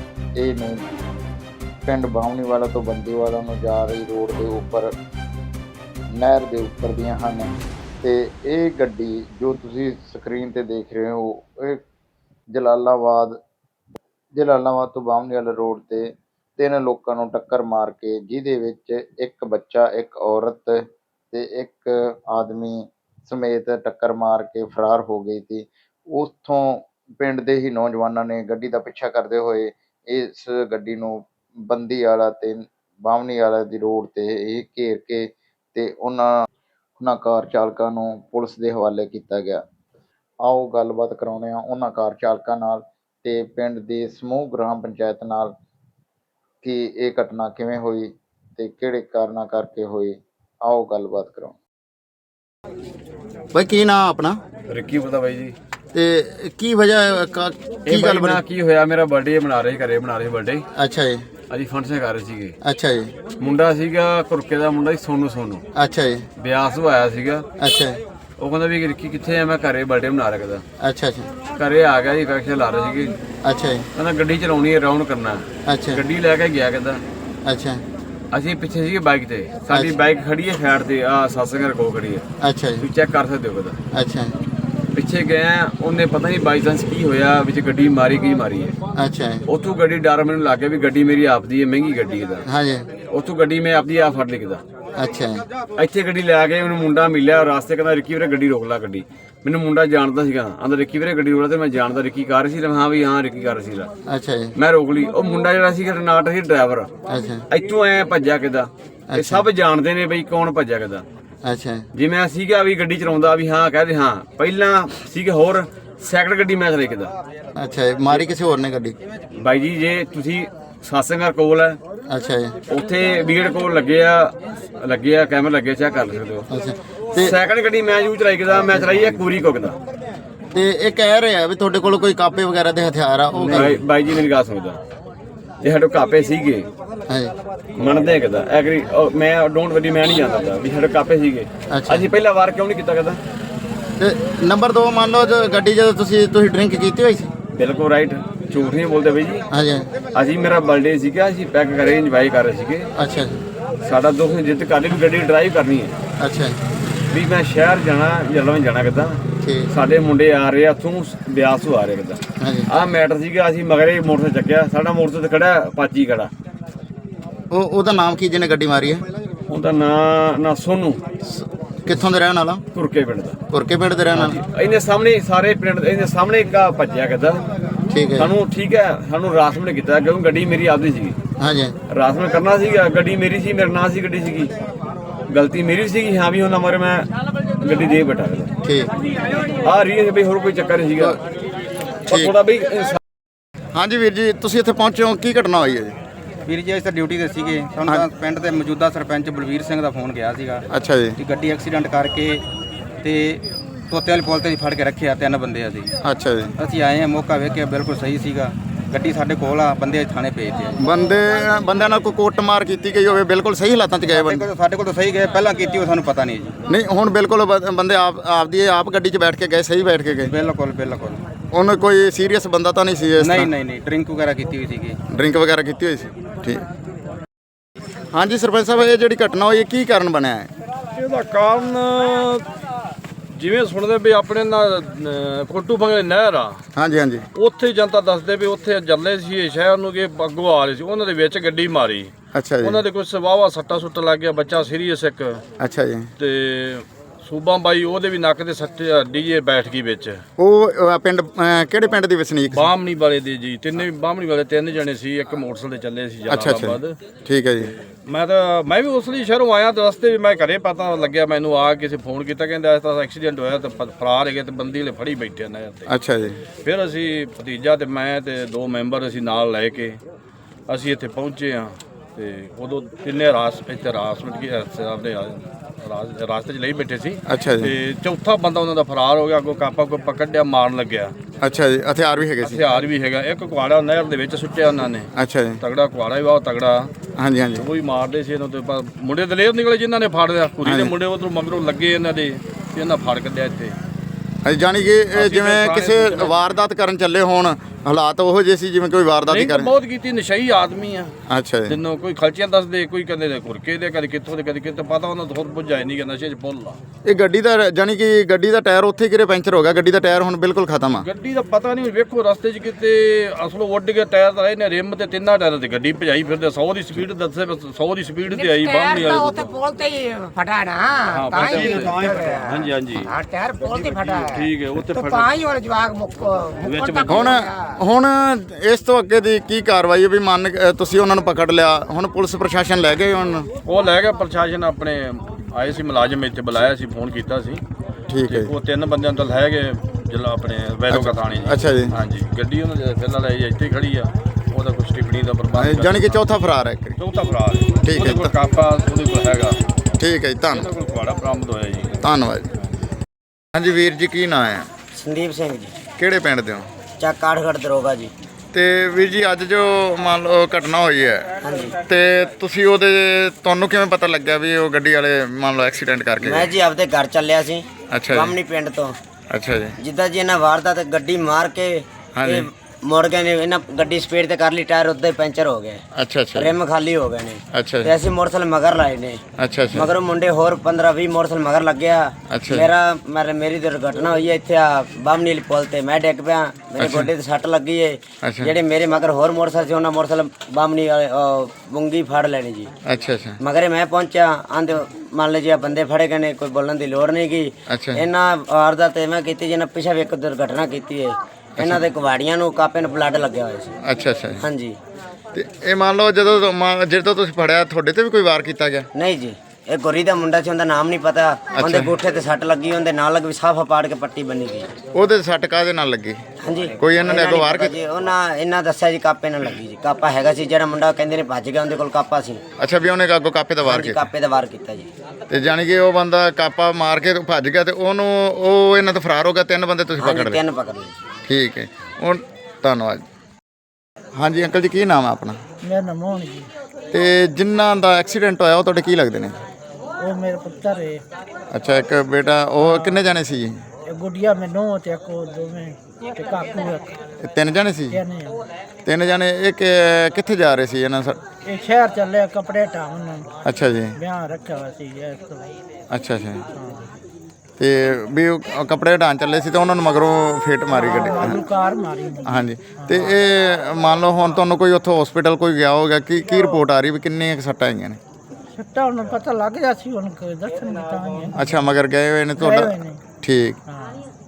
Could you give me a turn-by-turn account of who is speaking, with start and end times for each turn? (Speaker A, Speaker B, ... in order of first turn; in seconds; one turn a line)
Speaker A: 0.4-0.8
Speaker A: 1.9-4.9
Speaker A: 6.2-7.5
Speaker A: 8.0-11.8
Speaker A: 12.5-13.4
Speaker A: 14.4-36.3
Speaker A: 37.0-39.6
Speaker A: 40.4-45.5
Speaker A: 46.6-51.6
Speaker B: 53.5-54.4
Speaker C: 54.7-55.5
Speaker B: 55.9-58.4
Speaker C: 57.9-60.6
Speaker B: 60.8-61.3
Speaker C: 61.5-62.5
Speaker B: 62.6-63.1
Speaker C: 63.4-65.6
Speaker B: 65.8-66.3
Speaker C: 66.4-67.5
Speaker B: 67.6-68.0
Speaker C: 68.4-70.7
Speaker B: 70.8-71.3
Speaker C: 71.5-73.1
Speaker B: 73.5-73.8
Speaker C: 74.0-77.0
Speaker B: 77.5-77.8
Speaker C: 78.3-82.2
Speaker B: 82.4-82.8
Speaker C: 82.8-83.8
Speaker B: 84.0-84.3
Speaker C: 84.9-88.8
Speaker B: 89.0-89.4
Speaker C: 89.5-92.5
Speaker B: 92.5-92.8
Speaker C: 93.0-94.6
Speaker B: 95.0-95.4
Speaker C: 95.8-103.9
Speaker B: 104.1-104.5
Speaker C: 104.5-106.9
Speaker B: 107.1-107.4
Speaker C: 107.5-111.0
Speaker B: 109.1-109.5
Speaker B: 111.4-111.8
Speaker C: 112.0-117.1
Speaker B: 117.6-119.0
Speaker C: 119.3-121.8
Speaker B: 122.1-122.6
Speaker C: 122.7-126.5
Speaker B: 126.5-127.3
Speaker C: 127.1-129.8
Speaker B: 130.5-133.8
Speaker C: 133.4-134.8
Speaker C: 135.6-136.7
Speaker B: 137.1-137.3
Speaker C: 137.8-143.2
Speaker B: 141.7-142.1
Speaker B: 144.0-147.3
Speaker C: 147.5-149.5
Speaker B: 149.5-149.8
Speaker C: 150.1-152.9
Speaker B: 153.0-153.4
Speaker C: 153.8-156.0
Speaker B: 156.2-156.6
Speaker C: 157.1-166.3
Speaker B: 162.4-162.7
Speaker B: 167.5-169.1
Speaker C: 169.5-171.0
Speaker B: 171.2-172.6
Speaker C: 172.7-173.4
Speaker B: 173.5-174.4
Speaker C: 174.1-177.4
Speaker B: 177.9-178.3
Speaker C: 178.2-181.2
Speaker B: 181.4-181.7
Speaker C: 181.9-184.5
Speaker C: 185.3-187.1
Speaker C: 187.6-188.5
Speaker B: 188.6-188.9
Speaker C: 189.6-191.2
Speaker B: 192.1-192.3
Speaker C: 192.1-193.0
Speaker B: 193.7-196.0
Speaker D: 196.5-200.6
Speaker B: 200.7-201.2
Speaker D: 201.2-202.4
Speaker D: 203.0-205.9
Speaker B: 206.0-206.5
Speaker D: 206.6-210.8
Speaker B: 210.8-214.5
Speaker D: 214.2-216.6
Speaker B: 216.7-220.3
Speaker D: 220.3-221.2
Speaker B: 221.5-223.5
Speaker D: 223.3-225.0
Speaker B: 225.1-226.6
Speaker B: 228.1-230.5
Speaker E: 230.9-232.5
Speaker E: 233.3-236.6
Speaker B: 236.8-237.3
Speaker E: 237.3-242.1
Speaker B: 242.3-242.8
Speaker E: 242.6-245.4
Speaker B: 245.6-246.1
Speaker E: 246.2-250.2
Speaker B: 250.4-252.7
Speaker E: 252.5-257.0
Speaker B: 256.3-257.7
Speaker E: 258.1-265.9
Speaker B: 265.9-266.4
Speaker E: 266.6-270.0
Speaker E: 270.7-281.1
Speaker B: 277.3-277.7
Speaker B: 281.4-282.8
Speaker E: 282.4-286.9
Speaker B: 285.2-285.6
Speaker B: 287.2-287.7
Speaker E: 287.6-293.8
Speaker B: 290.6-290.9
Speaker B: 294.4-299.8
Speaker E: 295.1-296.4
Speaker E: 299.3-301.1
Speaker B: 301.3-301.8
Speaker E: 301.7-306.8
Speaker B: 307.1-311.1
Speaker E: 310.9-319.5
Speaker F: 318.3-327.7
Speaker E: 321.1-325.4
Speaker E: 326.6-327.3
Speaker B: 327.1-333.5
Speaker E: 333.6-337.6
Speaker B: 338.1-338.5
Speaker E: 338.3-346.2
Speaker B: 340.9-341.9
Speaker B: 345.6-347.0
Speaker E: 347.0-349.6
Speaker B: 347.8-348.3
Speaker B: 350.0-350.7
Speaker E: 350.5-352.0
Speaker B: 352.0-352.5
Speaker B: 353.6-354.7
Speaker G: 354.9-355.8
Speaker B: 356.0-356.7
Speaker G: 357.0-358.1
Speaker B: 358.5-361.3
Speaker G: 361.4-361.8
Speaker B: 361.9-366.5
Speaker G: 366.2-369.0
Speaker B: 367.9-368.4
Speaker B: 369.3-369.8
Speaker G: 369.8-375.8
Speaker B: 372.2-372.4
Speaker B: 375.9-376.6
Speaker G: 376.4-379.2
Speaker B: 377.5-377.9
Speaker B: 379.4-379.9
Speaker G: 379.7-392.7
Speaker B: 382.3-382.7
Speaker B: 386.8-387.1
Speaker B: 388.2-388.5
Speaker B: 392.9-393.4
Speaker G: 393.4-403.7
Speaker B: 397.7-398.0
Speaker B: 401.6-401.9
Speaker B: 403.8-404.4
Speaker G: 404.4-404.8
Speaker B: 405.3-408.9
Speaker G: 408.9-414.7
Speaker B: 411.6-411.9
Speaker B: 414.9-416.2
Speaker G: 416.4-422.4
Speaker B: 416.8-417.7
Speaker B: 422.6-424.1
Speaker G: 423.6-424.9
Speaker B: 425.3-430.4
Speaker G: 430.0-431.0
Speaker B: 431.3-433.1
Speaker B: 434.1-435.4
Speaker H: 435.6-436.5
Speaker B: 436.9-439.4
Speaker H: 440.0-441.0
Speaker B: 441.5-443.5
Speaker H: 442.6-443.0
Speaker H: 443.9-447.0
Speaker B: 447.2-448.0
Speaker H: 447.9-448.4
Speaker B: 448.9-451.2
Speaker H: 451.5-453.3
Speaker B: 453.4-454.0
Speaker H: 454.0-455.6
Speaker B: 455.9-456.4
Speaker H: 456.6-456.9
Speaker B: 457.6-461.4
Speaker H: 460.7-463.1
Speaker B: 462.3-468.0
Speaker H: 468.6-471.5
Speaker B: 471.3-473.6
Speaker H: 472.4-473.0
Speaker H: 473.7-474.1